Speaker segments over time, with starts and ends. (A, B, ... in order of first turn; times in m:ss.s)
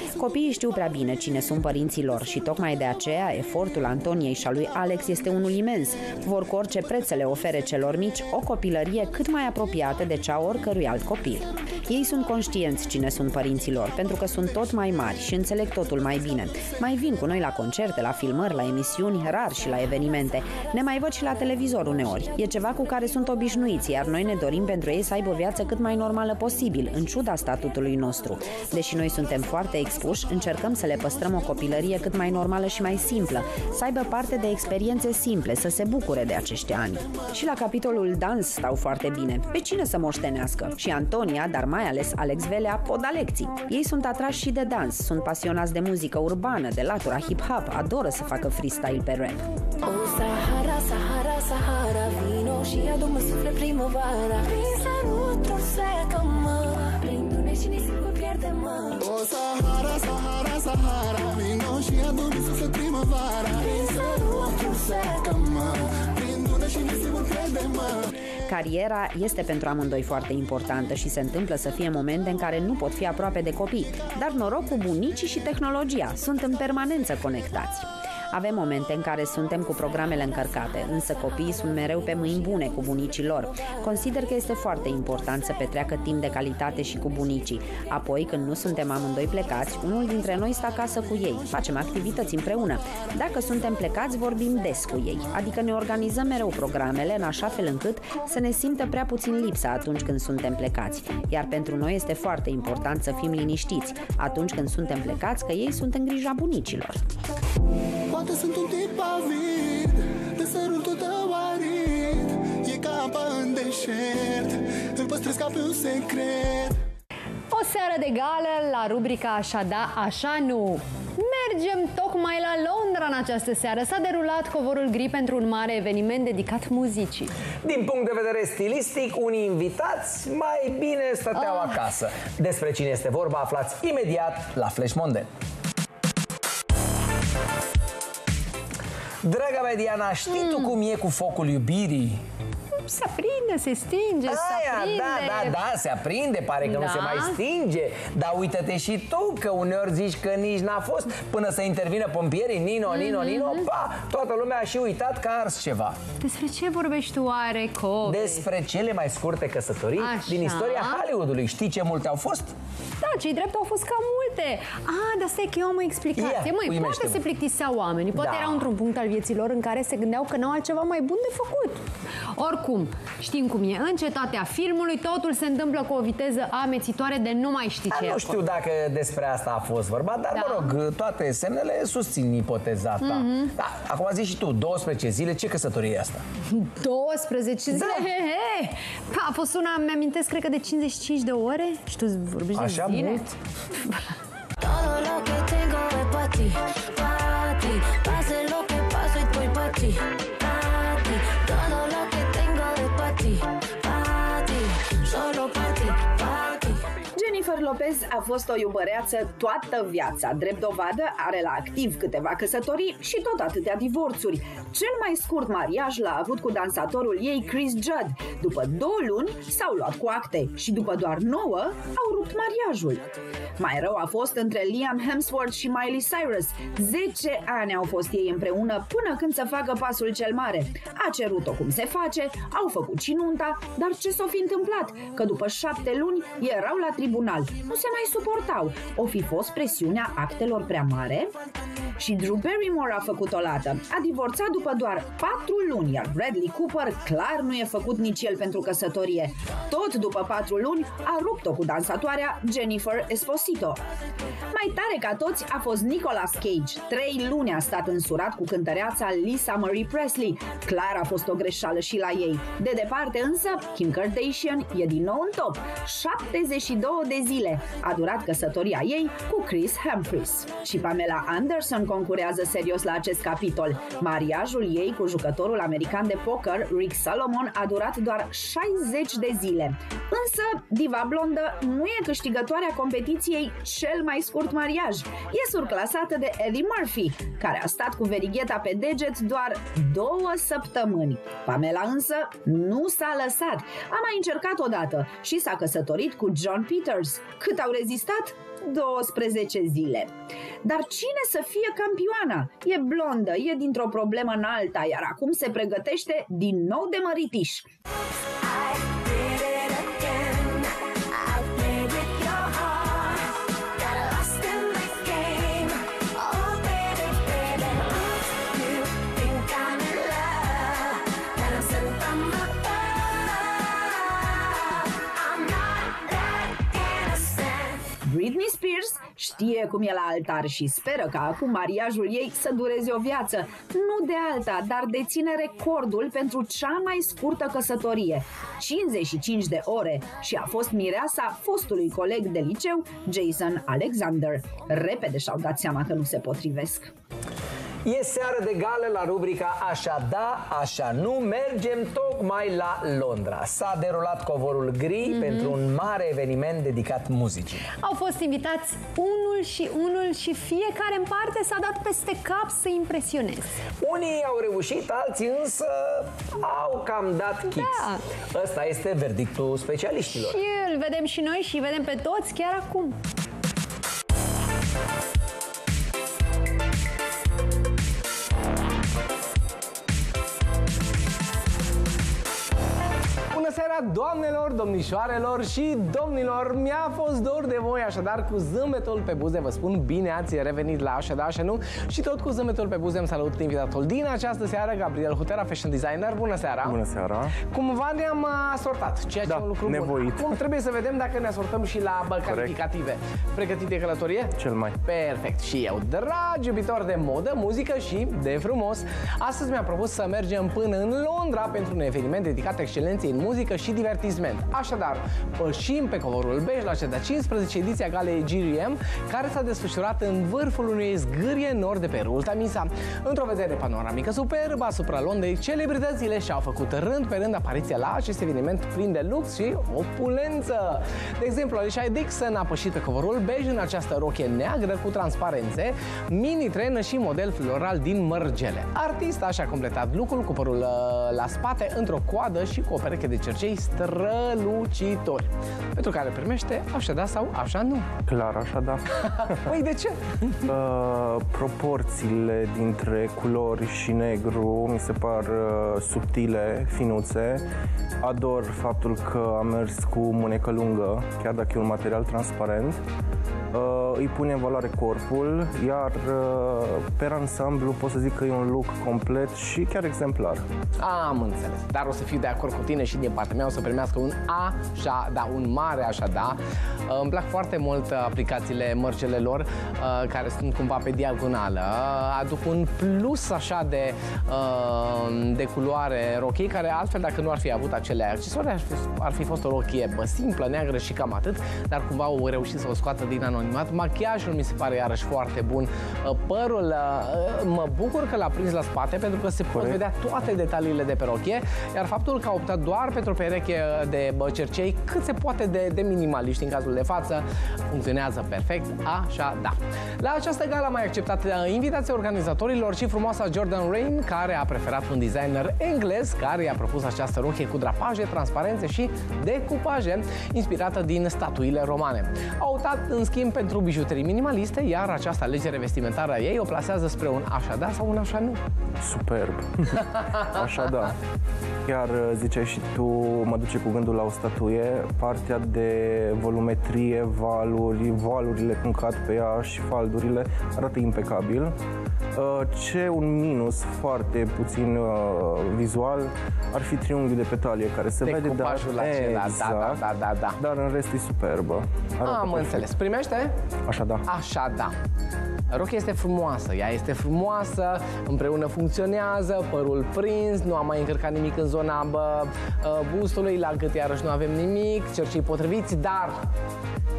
0:00.1-0:49.4 A
0:49.8-0:59.0 B
0:59.0-1:08.1 C
1:08.4-1:47.0 A
1:48.1-1:56.8 C
1:57.5-2:07.3 D
2:07.6-2:15.3 E
2:19.2-2:22.2 E
2:20.3-2:20.7 D
2:22.7-2:25.6 D
2:24.3-2:36.0 E
2:26.6-2:27.4 D
2:32.9-2:33.7 D
2:36.2-2:38.4 D
2:38.0-2:42.5 E
2:40.0-2:41.0 D
2:43.0-2:51.8 D
2:46.2-2:47.2 E
2:48.1-2:48.7 E
2:52.3-2:58.4 D
2:57.9-3:06.2 E
3:00.3-3:00.7 D
3:03.0-3:03.5 D
3:06.5-3:13.3 D
3:07.7-3:08.1 E
3:12.5-3:13.3 E
3:14.6-3:26.8 B
3:27.1-4:01.3 A
4:02.0-4:13.8 A
4:14.5-5:07.7 A
5:11.5-5:12.4 B
5:14.0-5:20.4 B
5:21.4-5:23.1 B
5:26.6-5:27.4 B
5:28.0-5:46.9 A
5:47.8-5:57.6 E
5:55.1-5:55.5 D
5:57.8-6:03.5 D
6:03.8-6:10.4 E
6:07.4-6:08.0 D
6:10.1-6:13.0 D
6:23.3-6:36.8 F
6:36.6-6:37.4 G
6:37.4-7:27.9 F
6:39.2-6:40.4 G
6:42.2-6:42.6 G
6:44.4-6:44.8 G
7:28.1-7:29.3 G
7:29.0-7:30.4 F
7:30.4-7:37.4 G
7:38.0-7:42.8 G
7:43.5-7:50.4 G
7:50.8-8:48.4 F
8:19.5-8:19.8 G
8:48.8-8:51.0 G
8:51.6-9:01.5 G
9:02.1-9:09.8 G
9:08.0-9:10.4 F
9:10.4-9:12.7 G
9:12.0-9:13.3 F
9:13.7-9:14.0 G
9:14.1-9:14.7 F
9:15.5-9:26.2 F